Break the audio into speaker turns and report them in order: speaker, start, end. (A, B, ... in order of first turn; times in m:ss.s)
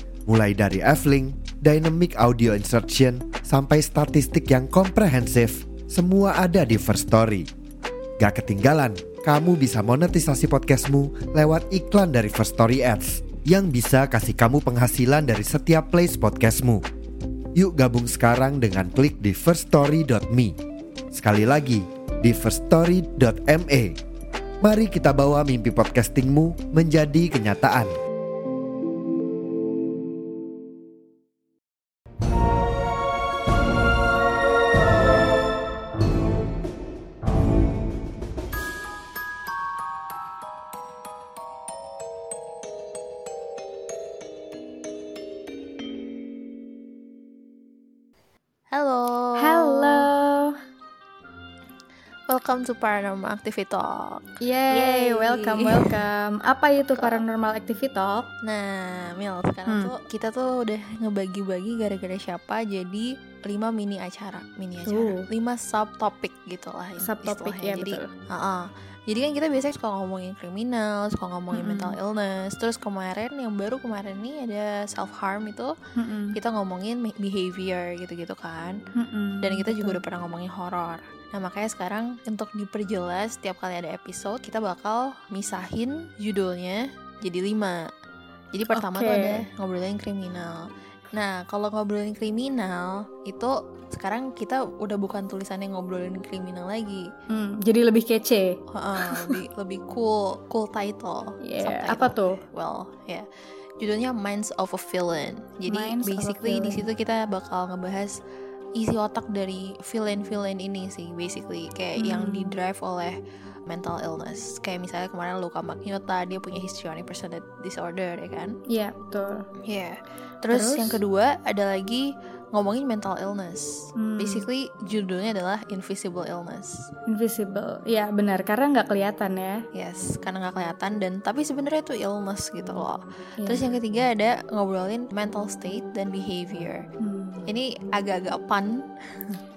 0:00.3-0:07.5 A
0:08.2-0:16.8 A
0:17.5-0:20.6 A
0:21.1-0:24.0 A
0:24.6-0:27.9 A
0:48.7-0:50.1 B
0:49.4-0:50.6 C
0:52.3-0:55.9 B
0:54.4-0:58.3 C
0:56.9-0:57.2 B
0:58.4-1:15.7 B
1:04.9-1:05.3 C
1:07.0-1:08.1 C
1:11.5-1:12.0 C
1:16.0-1:16.4 C
1:16.3-1:18.8 B
1:18.9-1:20.0 C
1:19.4-1:27.8 B
1:28.5-1:37.1 B
1:28.7-1:29.4 C
1:37.3-1:39.4 C
1:38.7-1:43.2 B
1:41.4-1:42.4 C
1:43.8-1:48.2 B
1:45.7-1:46.8 C
1:48.7-1:58.6 B
1:52.0-1:52.6 C
1:58.7-1:59.4 C
1:59.7-2:06.9 B
2:00.5-2:01.0 C
2:04.0-2:04.4 C
2:07.1-2:09.6 C
2:09.7-2:16.9 B
2:13.4-2:13.6 C
2:17.0-2:17.5 C
2:17.5-2:19.4 B